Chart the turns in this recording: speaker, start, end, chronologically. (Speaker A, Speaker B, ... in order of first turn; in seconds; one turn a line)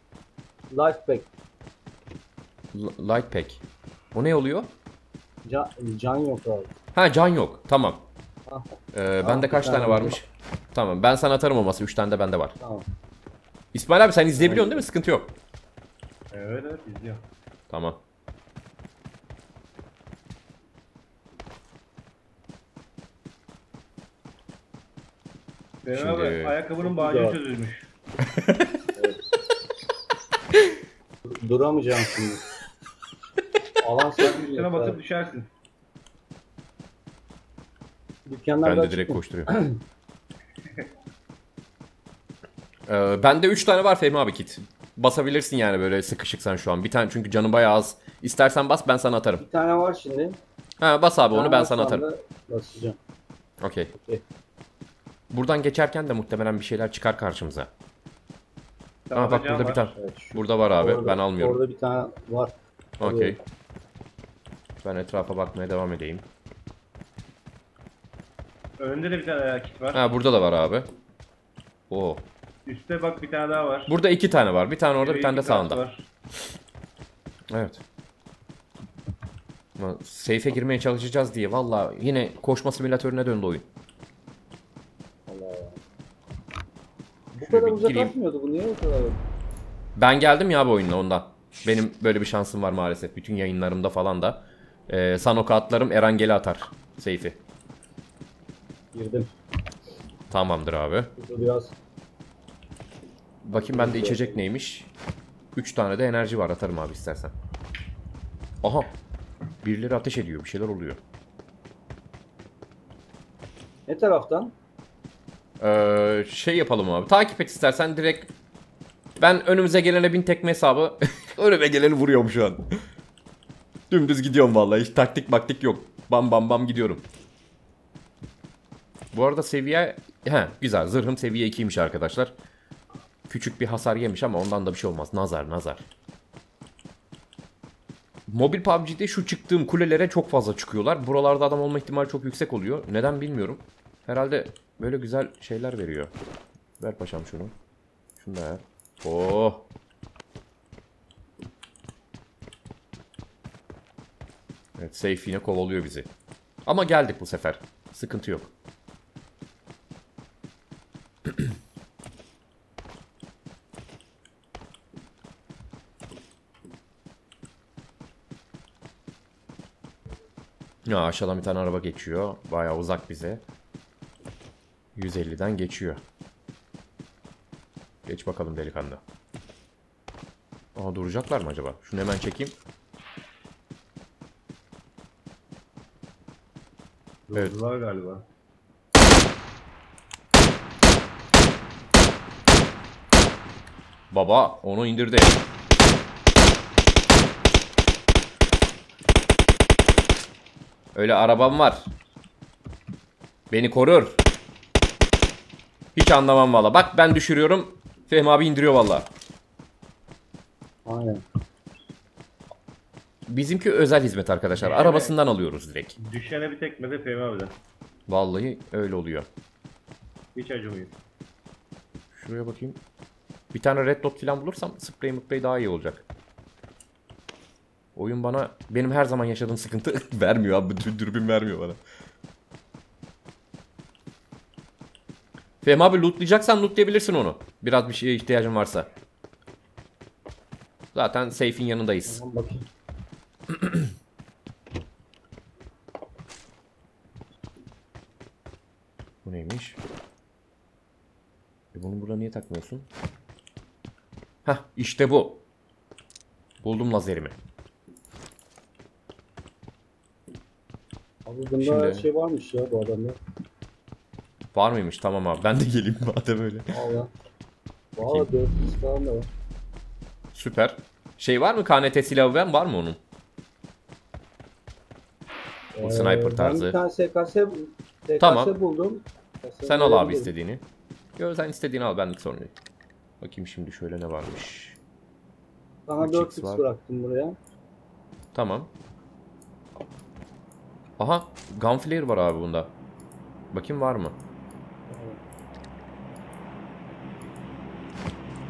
Speaker A: 0.7-1.3
Speaker B: 2.7-3.6
Speaker B: 4.1-4.7
Speaker A: 5.4-6.7
Speaker B: 6.9-8.1
Speaker B: 8.9-12.5
Speaker A: 9.2-10.2
Speaker A: 12.6-12.8
Speaker B: 13.7-15.3
Speaker A: 14.4-14.7
Speaker C: 16.3-17.2
Speaker B: 17.7-18.0
Speaker C: 25.8-27.9
Speaker B: 25.9-26.6
Speaker A: 26.8-27.4
Speaker B: 28.4-28.6
Speaker A: 31.2-32.4
Speaker A: 33.8-35.0
Speaker C: 34.2-35.5
Speaker A: 38.2-39.8
Speaker B: 38.6-39.5
Speaker B: 42.9-49.4
Speaker A: 49.4-50.4
Speaker B: 50.8-52.0
Speaker A: 51.3-53.0
Speaker B: 53.6-53.9
Speaker A: 53.9-54.2
Speaker B: 55.3-57.7
Speaker C: 59.1-59.9
Speaker B: 59.1-61.6
Speaker A: 60.0-63.4
Speaker B: 63.0-63.4
Speaker B: 64.8-66.2
Speaker C: 68.8-70.1
Speaker B: 69.9-70.9
Speaker B: 71.9-72.2
Speaker C: 72.7-73.9
Speaker B: 73.9-75.8
Speaker C: 75.0-76.1
Speaker B: 77.5-77.8
Speaker B: 79.8-83.7
Speaker A: 85.3-85.8
Speaker A: 87.3-89.2
Speaker B: 87.4-88.1
Speaker B: 90.0-97.4
Speaker A: 98.9-99.3
Speaker B: 100.3-101.1
Speaker A: 101.2-101.7
Speaker B: 103.4-104.9
Speaker A: 103.5-104.4
Speaker B: 105.5-107.3
Speaker B: 108.6-108.9
Speaker B: 109.6-111.0
Speaker A: 113.9-114.5
Speaker B: 115.6-118.3
Speaker B: 119.2-122.7
Speaker B: 123.9-127.0
Speaker B: 129.1-132.3
Speaker B: 133.3-135.8
Speaker B: 138.3-146.1
Speaker B: 146.8-147.5
Speaker B: 148.2-149.7
Speaker B: 154.8-156.1
Speaker B: 156.7-158.5
Speaker B: 170.8-173.4
Speaker B: 174.9-176.0
Speaker B: 178.0-179.0
Speaker B: 180.7-182.6
Speaker C: 187.3-188.2
Speaker B: 194.1-195.4
Speaker B: 200.9-201.9
Speaker B: 203.5-204.2
Speaker B: 205.9-209.1
Speaker A: 210.8-211.2
Speaker B: 213.3-215.9
Speaker C: 214.6-215.2
Speaker C: 216.0-217.6
Speaker B: 218.1-219.3
Speaker C: 220.3-220.9
Speaker B: 222.2-222.8
Speaker B: 223.5-226.1
Speaker B: 227.9-231.8
Speaker B: 235.6-238.9
Speaker B: 240.9-242.2
Speaker A: 242.1-242.7
Speaker B: 249.2-249.8
Speaker B: 251.7-252.9
Speaker B: 254.4-255.4
Speaker B: 256.6-257.4
Speaker A: 261.2-263.2
Speaker B: 261.6-262.1
Speaker B: 264.5-266.7
Speaker A: 266.7-267.1
Speaker A: 267.9-269.3
Speaker B: 268.0-268.3
Speaker B: 270.3-273.0
Speaker A: 275.7-280.3
Speaker B: 275.8-276.8
Speaker B: 278.2-278.5
Speaker B: 279.6-280.6
Speaker B: 281.2-282.5
Speaker B: 283.2-284.8
Speaker A: 285.9-287.4
Speaker B: 286.0-286.6
Speaker B: 288.3-288.7
Speaker B: 291.0-292.7
Speaker B: 293.5-294.2
Speaker A: 294.9-295.2